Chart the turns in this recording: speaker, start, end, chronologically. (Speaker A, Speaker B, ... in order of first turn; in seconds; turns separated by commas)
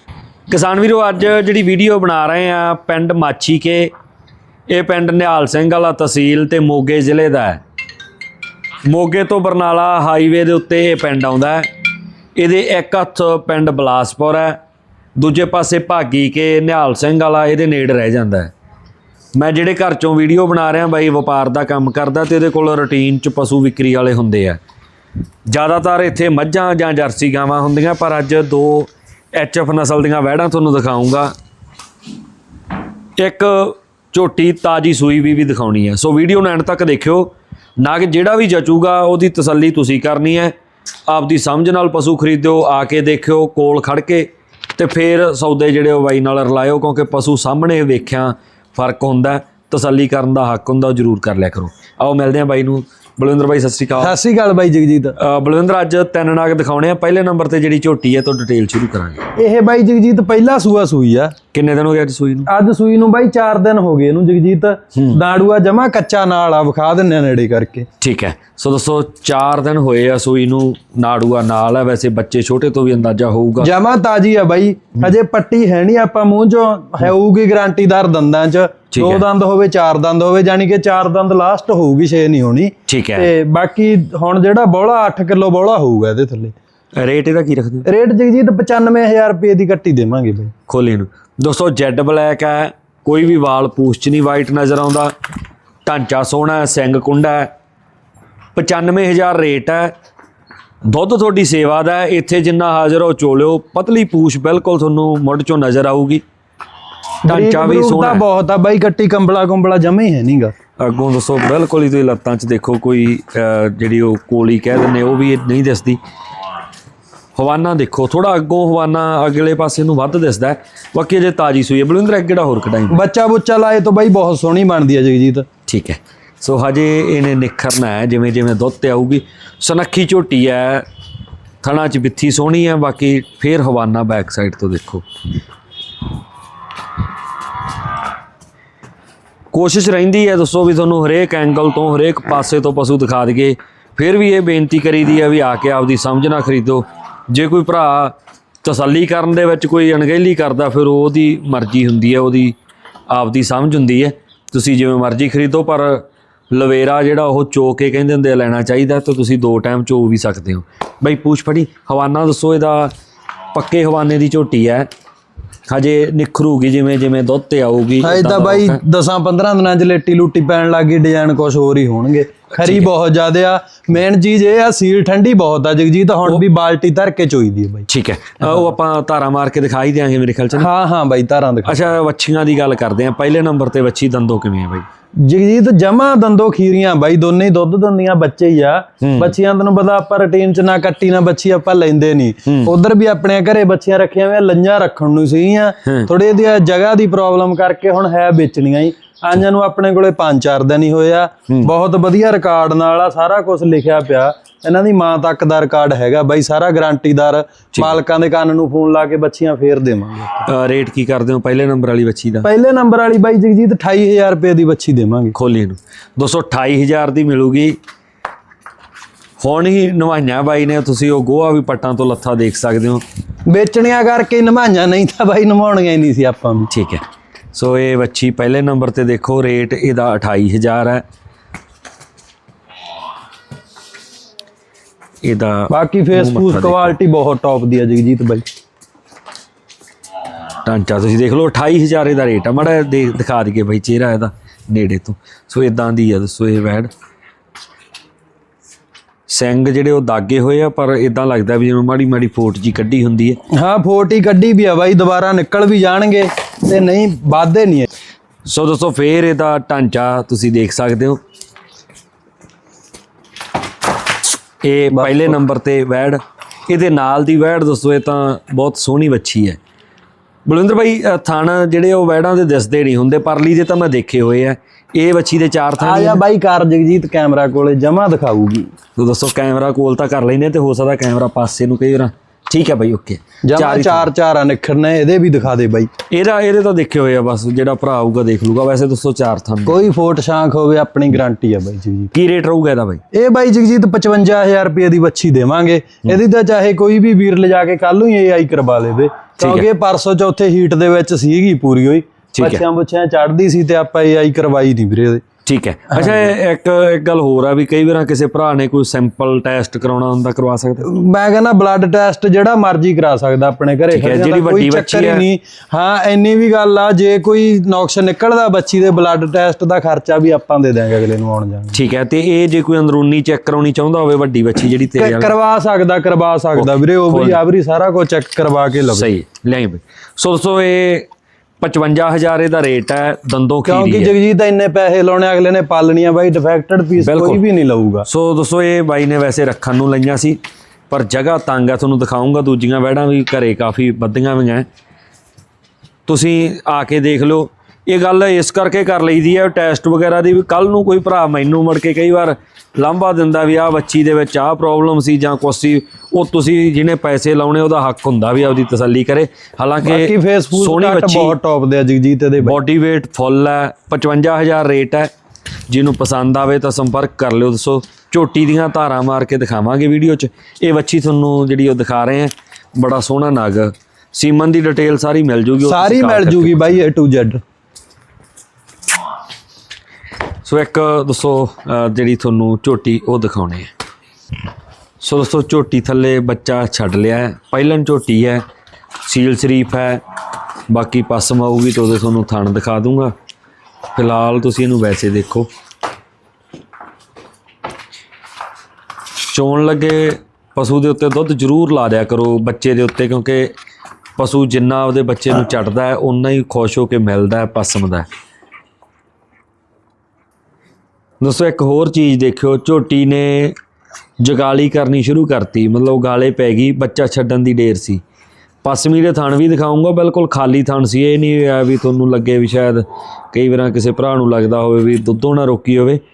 Speaker A: 0.5-3.9, Speaker A: 4.7-7.6, Speaker A: 8.8-11.7, Speaker A: 12.3-14.6, Speaker A: 15.2-18.5, Speaker A: 19.3-24.6, Speaker A: 25.5-31.3, Speaker A: 33.2-40.5, Speaker A: 41.1-54.2, Speaker B: 54.0-55.1, Speaker A: 55.2-59.3, Speaker B: 59.4-61.3, Speaker A: 61.5-62.5, Speaker B: 62.5-67.9, Speaker A: 68.0-73.7, Speaker B: 73.6-86.5, Speaker A: 78.9-79.2, Speaker A: 82.9-83.3, Speaker A: 87.0-87.9, Speaker B: 87.8-90.5, Speaker A: 90.7-95.1, Speaker A: 95.8-97.5, Speaker A: 98.5-99.9, Speaker A: 100.8-106.2, Speaker B: 107.2-110.5, Speaker A: 107.2-108.2, Speaker A: 110.8-116.0, Speaker A: 117.3-123.0, Speaker B: 122.9-125.5, Speaker A: 125.7-130.8, Speaker A: 131.6-135.0, Speaker A: 139.5-152.6, Speaker A: 153.1-162.9, Speaker A: 163.5-164.9, Speaker A: 165.7-168.8, Speaker B: 168.0-177.8, Speaker A: 172.6-172.9, Speaker A: 177.9-180.7, Speaker B: 180.6-181.8, Speaker A: 181.6-184.8, Speaker B: 185.2-210.5, Speaker A: 189.0-189.3, Speaker A: 195.8-196.1, Speaker A: 210.4-212.5, Speaker B: 212.4-215.3, Speaker A: 215.3-217.8, Speaker A: 219.4-223.0, Speaker B: 223.5-226.7, Speaker A: 226.7-231.0, Speaker A: 235.2-236.9, Speaker B: 235.7-238.4, Speaker A: 240.6-246.9, Speaker A: 249.3-253.4, Speaker B: 253.5-257.9, Speaker A: 258.4-261.2, Speaker A: 264.6-269.6, Speaker B: 264.9-265.3, Speaker A: 270.4-276.2, Speaker B: 275.8-278.7, Speaker A: 279.0-284.1, Speaker B: 283.4-285.9, Speaker A: 286.1-289.8, Speaker B: 289.6-292.1, Speaker A: 292.1-293.0, Speaker B: 293.1-305.2, Speaker A: 299.4-299.6, Speaker A: 302.3-302.6, Speaker A: 305.4-310.9, Speaker B: 305.9-306.3, Speaker B: 310.8-321.8, Speaker A: 313.9-315.2, Speaker A: 321.7-325.3, Speaker B: 325.0-329.1, Speaker A: 326.6-327.4, Speaker A: 328.9-331.1, Speaker A: 331.6-334.1, Speaker B: 333.6-338.1, Speaker A: 337.0-337.4, Speaker A: 338.1-340.4, Speaker A: 340.9-344.7, Speaker A: 346.1-361.4, Speaker B: 359.8-362.6, Speaker A: 362.4-365.1, Speaker A: 365.7-376.8, Speaker B: 375.6-377.4, Speaker A: 380.4-383.7, Speaker A: 385.0-388.4, Speaker A: 389.0-390.0, Speaker A: 390.7-393.1, Speaker A: 393.9-395.5, Speaker A: 399.3-403.5, Speaker A: 404.2-408.1, Speaker A: 411.2-413.5, Speaker A: 414.2-418.0, Speaker A: 418.6-426.0